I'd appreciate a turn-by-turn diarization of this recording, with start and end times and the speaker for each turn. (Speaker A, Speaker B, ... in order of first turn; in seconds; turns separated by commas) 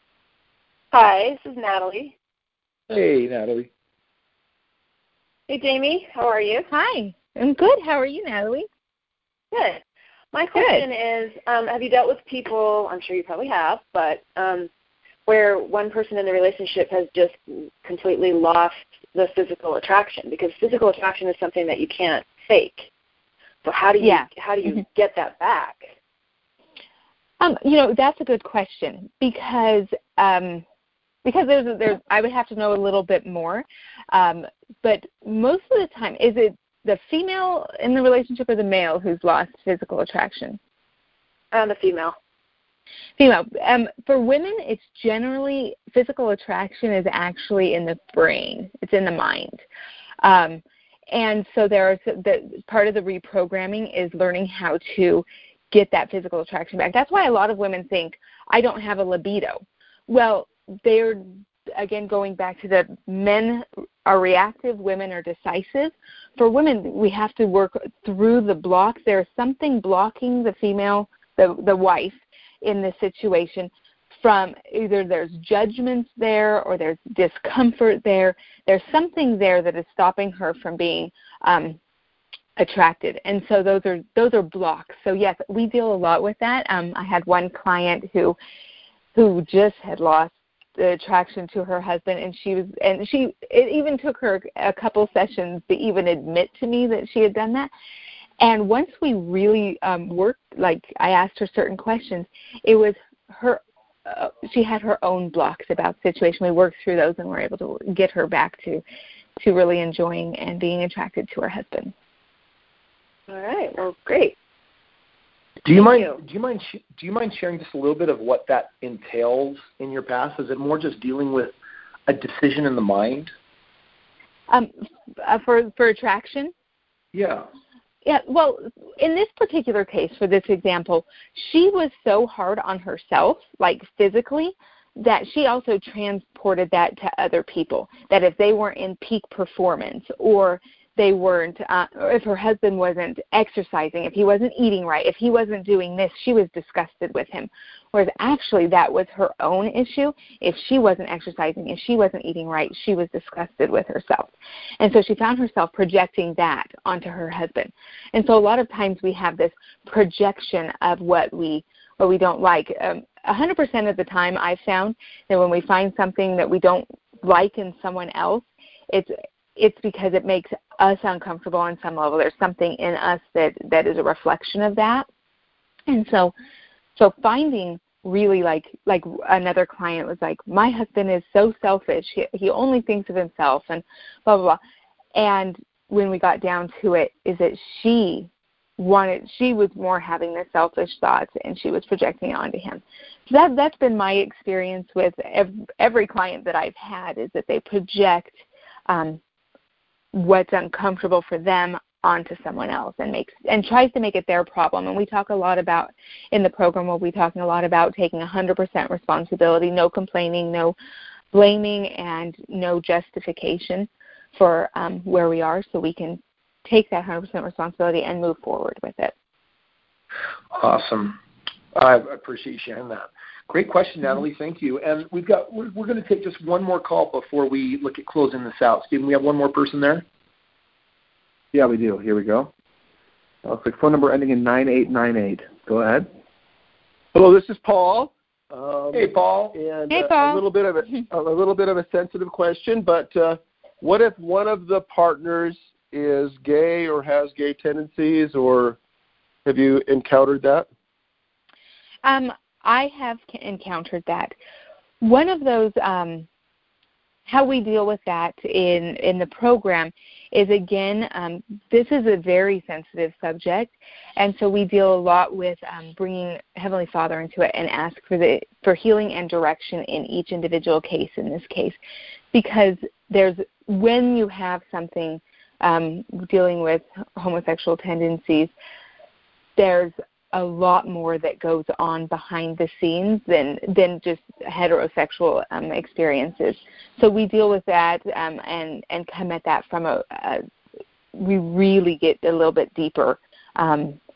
Speaker A: 0.9-2.1, Speaker B: 2.9-3.7, Speaker A: 5.5-6.7, Speaker C: 6.7-8.7, Speaker A: 9.5-9.8, Speaker A: 10.3-14.7, Speaker C: 10.5-10.8, Speaker A: 15.3-22.9, Speaker A: 23.6-25.9, Speaker C: 24.0-24.3, Speaker C: 27.4-30.6, Speaker C: 31.2-40.6, Speaker A: 41.5-42.1, Speaker C: 43.2-49.6, Speaker C: 50.2-73.7, Speaker C: 74.2-81.8, Speaker C: 82.6-88.4, Speaker C: 89.1-97.7, Speaker C: 98.4-108.8, Speaker C: 109.4-111.9, Speaker A: 113.3-114.3, Speaker B: 115.6-121.5, Speaker A: 115.7-116.2, Speaker B: 122.1-123.3, Speaker C: 125.2-126.5, Speaker B: 127.1-127.5, Speaker C: 128.0-175.1, Speaker C: 175.9-176.3, Speaker C: 177.0-184.6, Speaker C: 185.1-199.2, Speaker C: 200.1-210.8, Speaker C: 211.3-219.1, Speaker B: 220.5-221.2, Speaker B: 221.7-230.0, Speaker D: 231.5-232.5, Speaker D: 233.4-236.1, Speaker E: 237.1-248.8, Speaker B: 238.9-239.6, Speaker C: 239.9-240.4, Speaker E: 249.4-250.7, Speaker C: 252.0-254.3, Speaker C: 255.0-256.3, Speaker C: 257.3-271.8, Speaker C: 272.3-278.5, Speaker C: 279.6-290.4, Speaker C: 291.1-294.0